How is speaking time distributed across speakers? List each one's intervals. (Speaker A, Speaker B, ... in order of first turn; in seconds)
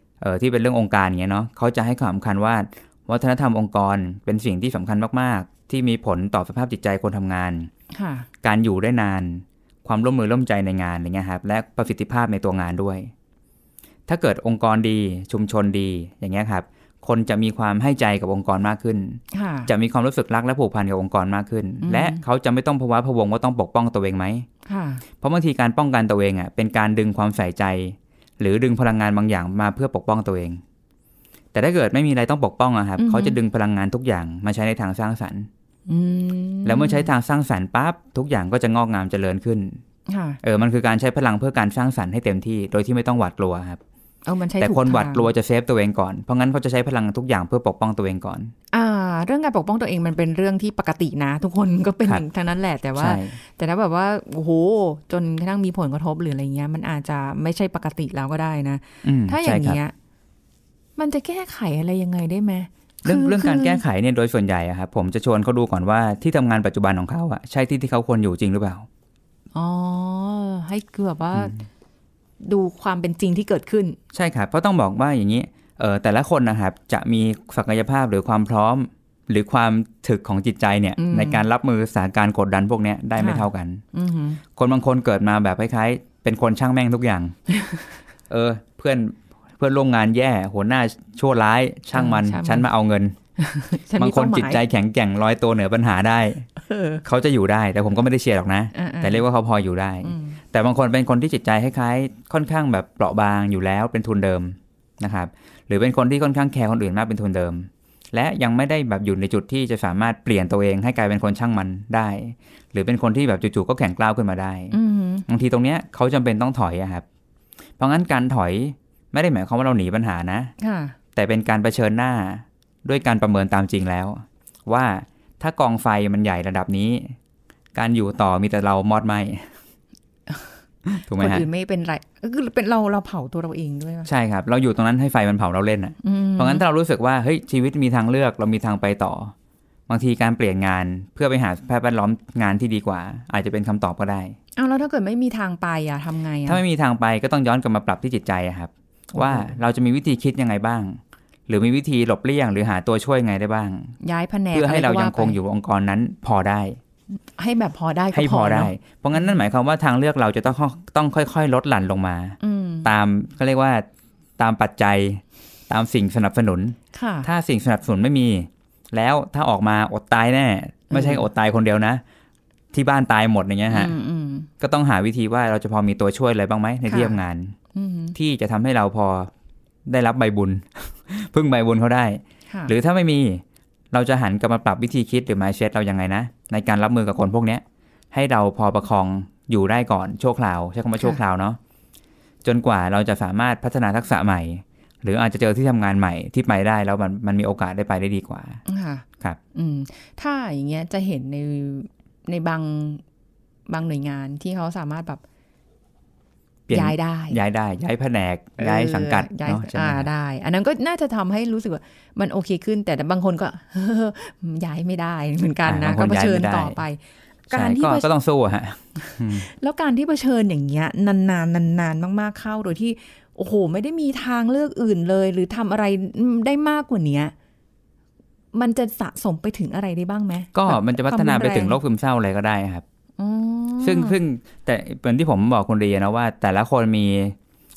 Speaker A: 0.2-7.7, 8.4-13.1, 14.1-24.5, 25.2-30.6, 31.5-35.5, 36.6-39.8, 40.4-43.8, 44.6-48.5, 53.0-53.4, 59.0-59.8, 63.0-68.9, 74.1-83.8, 84.5-87.4, 88.3-93.2, 94.0-96.5, 97.0-114.8, 115.3-117.0, 117.8-120.5, 121.2-127.2, 127.8-129.5, 130.9-131.5, 134.1-139.3, 139.9-144.4, 146.5-153.9, 154.5-156.8, 158.1-163.9, 164.4-172.0, 172.7-173.9, 174.6-177.6, 178.1-179.3, 179.9-191.6, 192.4-198.6, 206.7-210.1, 215.7-216.8, 217.5-219.5, 230.5-232.8, 233.8-237.4
Speaker B: 7.9-8.3, 19.3-19.7, 21.8-22.2, 24.7-25.0, 33.0-33.4, 35.9-37.1, 40.1-40.4, 44.3-45.3, 48.7-59.9, 61.0-63.8, 69.5-71.6, 72.4-74.0, 81.0-81.4, 83.2-84.4, 91.9-92.7, 93.4-94.6, 96.6-97.0, 98.7-99.2, 100.0-100.4, 114.7-115.3, 120.6-121.0, 131.1-134.1, 136.0-136.6, 144.6-146.6, 149.2-149.5, 154.0-155.4, 157.2-159.3, 162.4-162.9, 166.9-167.3, 170.9-171.3, 173.7-174.5, 176.9-177.2, 177.7-178.2, 198.7-203.0, 203.7-205.2, 206.7-207.4, 208.6-217.0, 217.5-218.1, 219.0-227.3, 228.5-231.8, 233.2-234.2